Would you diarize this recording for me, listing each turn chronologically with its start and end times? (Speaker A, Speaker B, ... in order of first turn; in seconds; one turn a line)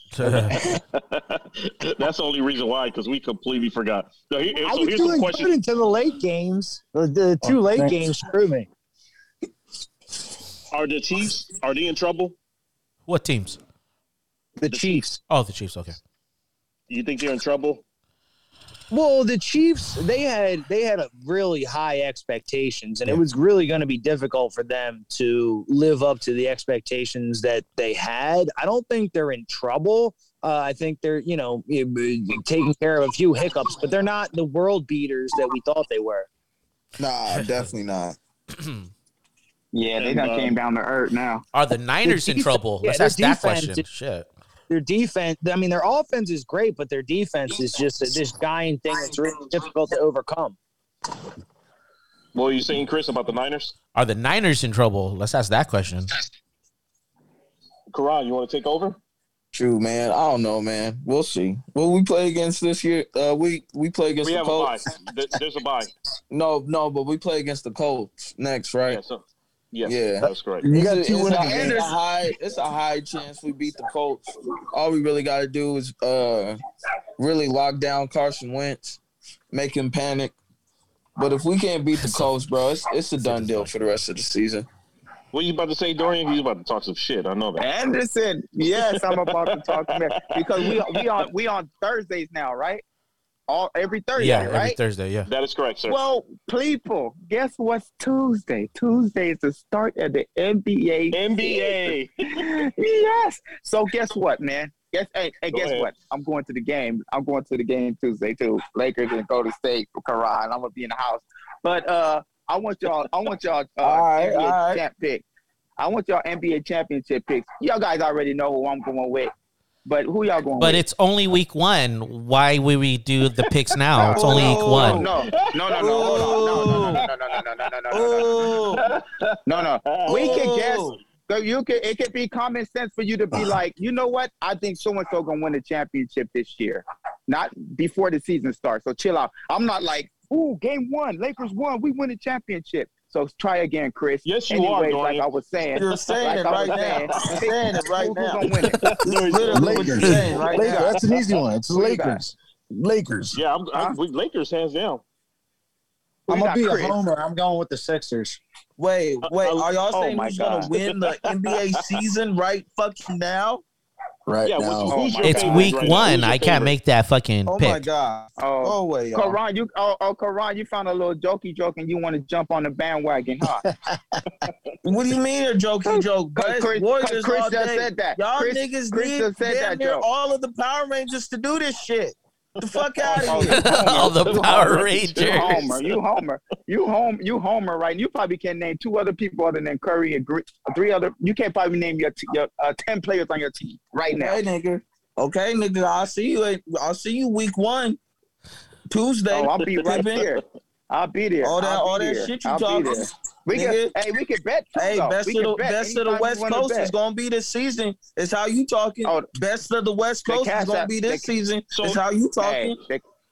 Speaker A: 0.1-0.6
Speaker B: 0.2-5.5
Speaker C: 4.6-8.7
Speaker D: 7.4-8.1
Speaker B: 10.7-12.3
Speaker A: 13.1-13.6
Speaker C: 14.6-15.2
Speaker B: 14.7-15.0
Speaker A: 15.3-16.0
Speaker B: 16.9-17.8
Speaker C: 18.9-36.3
Speaker E: 37.0-38.2
Speaker A: 37.4-37.7
Speaker A: 38.6-38.9
Speaker F: 39.7-41.4
Speaker B: 40.0-40.5
Speaker A: 41.5-44.3
Speaker C: 42.0-43.9
Speaker C: 44.7-50.6
Speaker B: 52.3-53.7
Speaker A: 53.9-56.1
Speaker B: 57.9-59.0
Speaker E: 59.5-64.8
Speaker B: 64.2-65.9
Speaker E: 66.3-69.0
Speaker B: 68.9-70.7
Speaker E: 69.8-76.6
Speaker D: 70.6-71.9
Speaker F: 71.2-71.9
Speaker E: 77.2-79.0
Speaker E: 79.5-80.3
Speaker E: 81.2-84.7
Speaker A: 82.0-82.3
Speaker A: 83.2-83.7
Speaker B: 85.3-87.6
Speaker F: 87.6-92.8
Speaker B: 88.9-91.1
Speaker F: 93.5-94.8
Speaker A: 94.2-95.3
Speaker B: 95.3-96.0
Speaker F: 95.9-101.7
Speaker B: 101.1-102.5
Speaker F: 102.3-115.2
Speaker B: 105.5-105.9
Speaker E: 113.8-114.8
Speaker F: 115.8-119.3
Speaker F: 119.8-120.8
Speaker A: 120.6-125.0
Speaker F: 123.9-128.5
Speaker E: 124.1-125.1
Speaker B: 124.5-127.1
Speaker E: 125.8-127.1
Speaker E: 127.9-128.8
Speaker B: 128.8-130.5
Speaker F: 129.5-149.0
Speaker E: 130.0-131.0
Speaker B: 144.2-145.3
Speaker E: 145.7-148.5
Speaker B: 146.7-147.3
Speaker B: 148.8-150.2
Speaker E: 149.0-151.0
Speaker D: 149.5-153.4
Speaker F: 149.8-151.0
Speaker F: 151.7-152.2
Speaker B: 153.3-155.0
Speaker C: 156.3-158.4
Speaker F: 156.3-156.9
Speaker E: 158.8-163.6
Speaker B: 159.2-159.7
Speaker F: 159.9-160.7
Speaker B: 160.7-161.8
Speaker D: 164.2-165.0
Speaker B: 164.4-166.7
Speaker F: 164.9-166.0
Speaker A: 165.2-167.8
Speaker E: 167.4-169.4
Speaker F: 168.4-173.6
Speaker E: 174.8-184.7
Speaker F: 175.8-180.0
Speaker B: 182.7-183.5
Speaker F: 183.0-194.4
Speaker A: 183.5-185.8
Speaker B: 185.2-185.8
Speaker E: 194.1-198.0
Speaker E: 198.9-200.2
Speaker F: 199.3-206.9
Speaker B: 199.8-200.3
Speaker E: 201.4-203.9
Speaker E: 204.7-212.8
Speaker F: 209.0-209.3
Speaker F: 210.2-211.3
Speaker B: 211.7-212.0
Speaker F: 212.4-213.0